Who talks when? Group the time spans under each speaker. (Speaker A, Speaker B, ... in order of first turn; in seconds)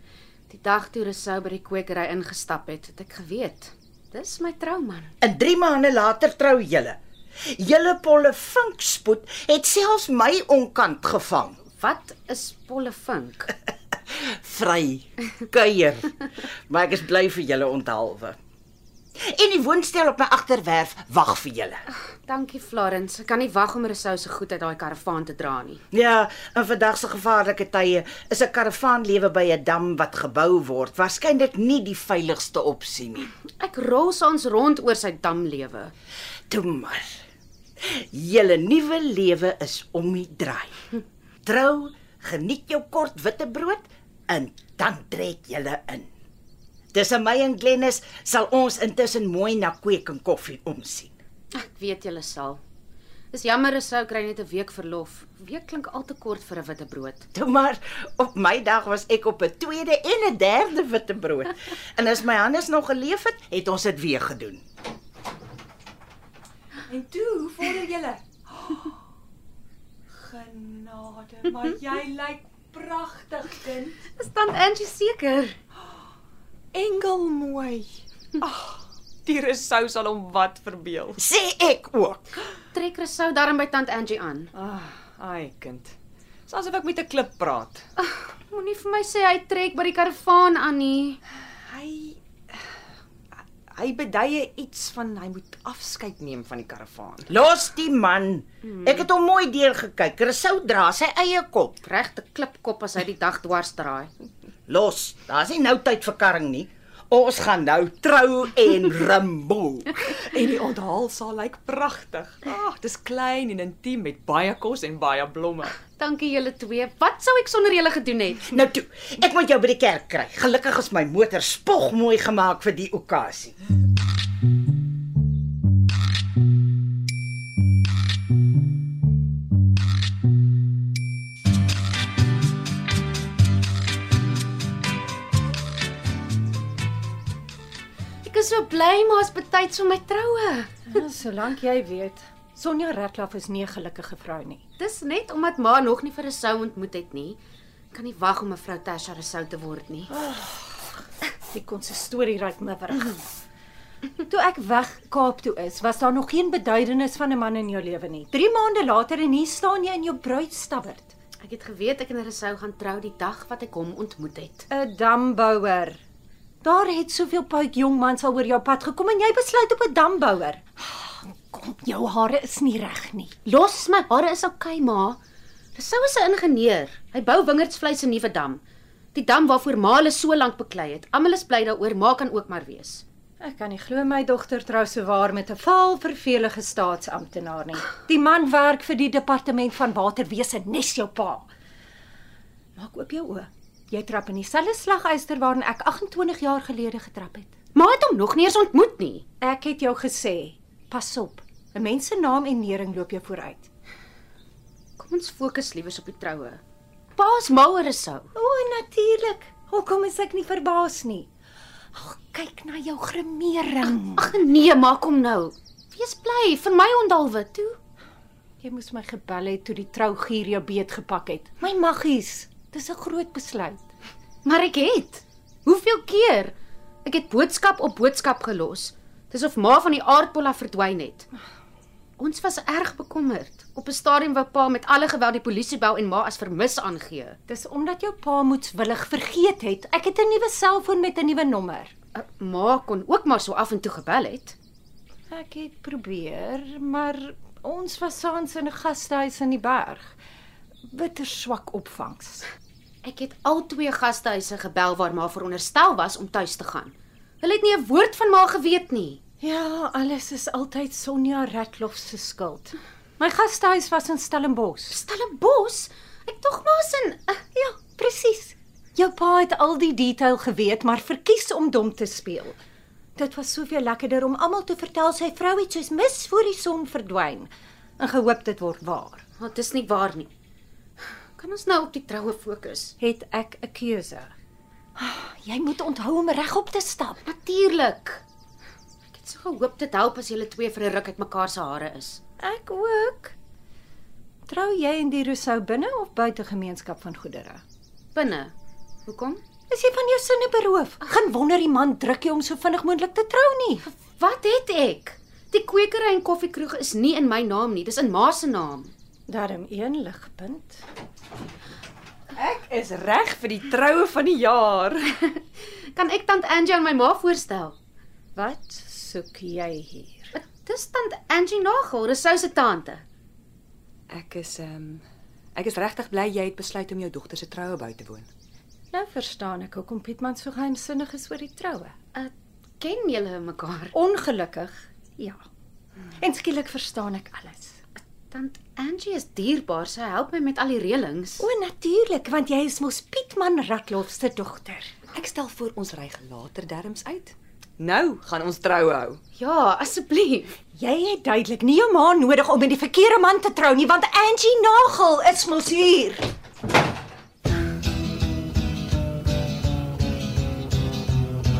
Speaker A: 0.5-5.1, 11.8-13.5, 22.3-25.8, 33.6-35.9, 51.5-52.6, 53.3-57.3, 74.2-75.6, 82.7-84.5, 88.0-91.2, 98.7-99.1, 101.8-104.1, 116.0-118.5, 138.2-140.9, 144.8-147.4, 147.9-150.1, 161.4-164.7, 173.5-175.2, 175.8-178.6, 179.1-183.0, 197.8-199.3, 205.0-206.6, 207.2-208.3, 214.2-217.8, 224.4-226.5, 227.1-231.3, 232.2-237.4, 242.2-244.6, 253.0-259.2, 264.9-267.4, 279.4-280.3, 281.4-282.9, 287.2-288.2, 289.1-292.2, 298.1-298.5, 299.1-299.4, 303.9-308.9, 315.9-317.8, 320.4-323.0, 332.1-333.9, 338.3-341.4, 349.4-350.5
Speaker B: 5.2-11.6, 14.1-18.4, 19.2-21.8, 25.9-33.3, 36.5-37.1, 37.8-40.8, 41.4-46.1, 46.9-51.2, 57.3-64.6, 81.2-82.2, 97.3-101.8, 104.7-109.9, 118.5-123.5
Speaker C: 66.9-69.0, 70.2-74.0, 76.7-81.2, 84.5-86.0, 86.5-87.8, 91.7-92.6, 93.7-97.3, 110.0-115.8, 312.4-315.3, 324.1-325.0, 325.6-328.3, 345.1-349.2
Speaker D: 140.9-144.6, 150.1-150.6, 151.4-153.3, 154.2-161.1, 164.7-166.0, 166.6-173.4, 183.4-191.5, 192.8-197.5, 199.4-203.7, 208.3-211.3, 211.9-214.3, 218.6-223.9, 237.5-241.9, 245.3-250.2, 250.9-252.4, 259.4-265.0, 267.6-272.6, 273.2-279.2, 283.0-284.3, 285.0-287.2, 292.4-293.4, 294.5-297.6, 299.7-303.9, 309.3-310.8, 318.4-320.3, 328.9-331.9, 333.9-335.4, 336.2-337.8, 341.4-344.9, 350.8-356.2